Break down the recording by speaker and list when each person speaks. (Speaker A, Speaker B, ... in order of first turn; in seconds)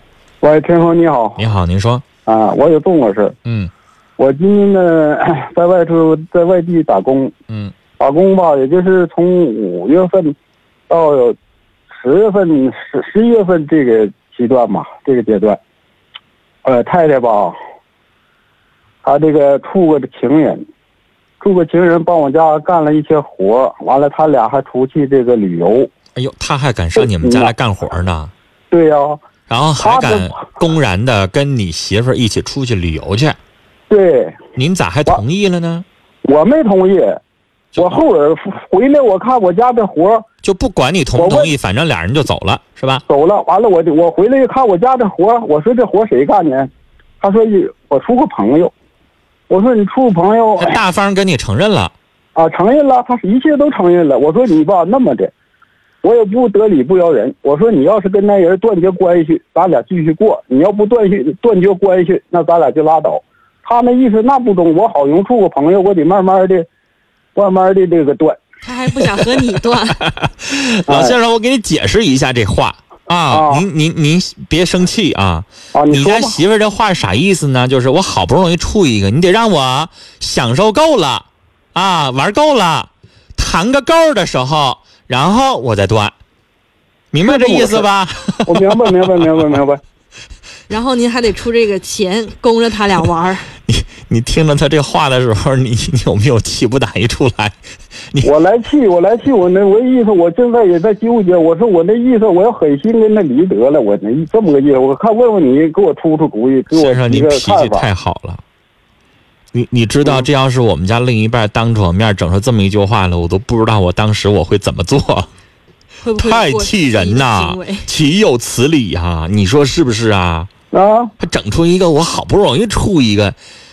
Speaker A: 0.4-1.4, 2.3-3.3, 4.2-7.3, 8.0-10.3, 10.9-11.4, 11.9-15.6, 16.6-17.6, 19.0-20.6, 21.4-25.9, 26.9-27.5, 28.7-29.2, 29.8-30.5, 33.9-34.4, 36.2-37.2, 37.8-40.2, 41.1-41.5, 43.1-46.7, 47.2-48.7, 49.5-50.8, 52.4-55.3, 56.0-66.7, 67.3-68.4, 70.9-71.2, 73.3-73.7, 75.7-76.4, 87.2-87.9, 88.5-89.8, 98.2-107.9, 120.7-121.1
Speaker B: 1.4-2.0, 3.5-3.7, 7.5-7.8, 26.1-28.3, 29.5-33.4, 34.5-35.9, 40.4-43.0, 50.6-51.9, 70.0-86.2, 87.1-89.3, 93.7-97.6, 106.7-108.4, 109.5-115.3, 116.2-120.5, 121.2-123.4
Speaker C: 68.6-70.0, 90.7-93.5, 116.0-117.9